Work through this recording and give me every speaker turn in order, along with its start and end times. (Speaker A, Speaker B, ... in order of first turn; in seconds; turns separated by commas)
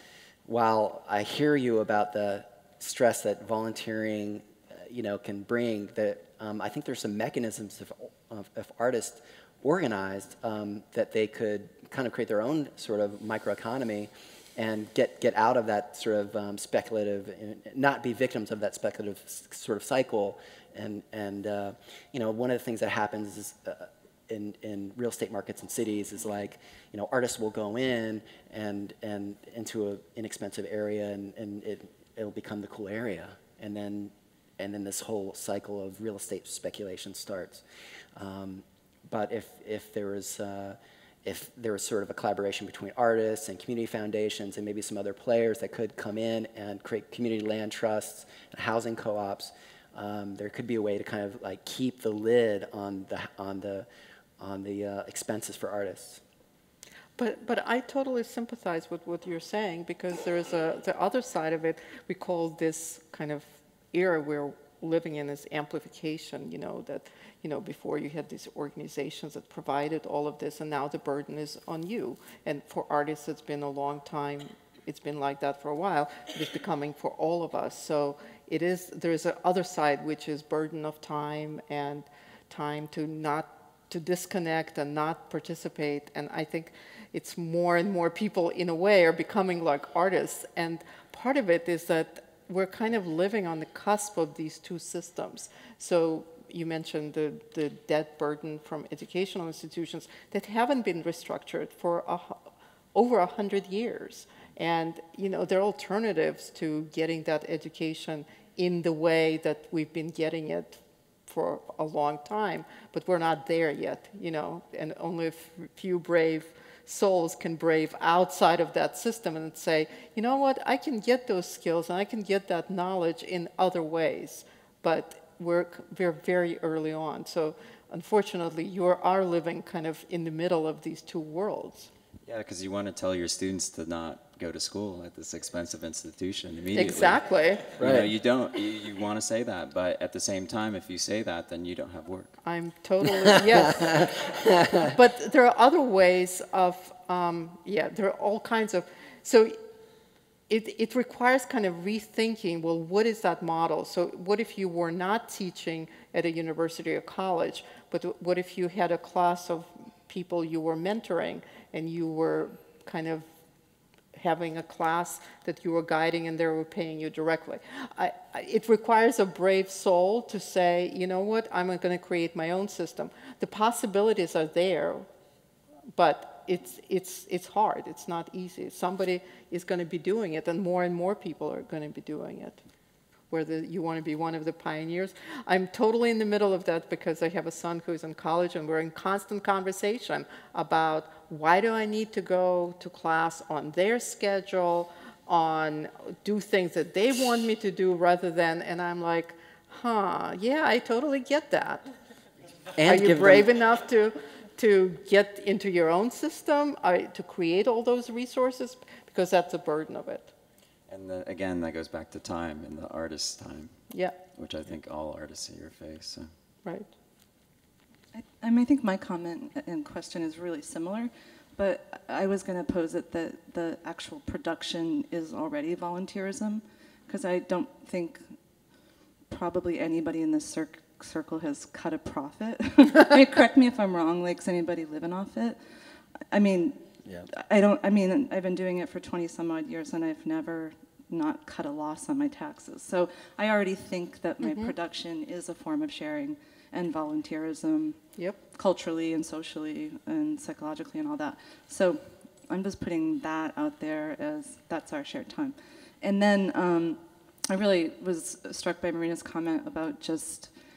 Speaker A: 0.5-37.6, Speaker A: 38.1-53.9, Speaker A: 54.4-56.2, Speaker B: 57.2-131.9, Speaker C: 132.3-142.4, Speaker B: 136.8-137.7, Speaker A: 137.8-138.1, Speaker B: 142.4-144.0, Speaker B: 144.9-149.6, Speaker B: 150.5-163.3, Speaker B: 164.1-175.1, Speaker B: 175.9-182.6, Speaker B: 183.3-201.8, Speaker A: 202.8-203.5, Speaker B: 202.8-210.3, Speaker C: 210.9-213.7, Speaker C: 214.3-216.3, Speaker D: 218.1-228.2, Speaker D: 229.3-235.6, Speaker D: 236.3-236.8, Speaker D: 237.3-248.0, Speaker B: 244.4-244.7, Speaker D: 248.6-260.5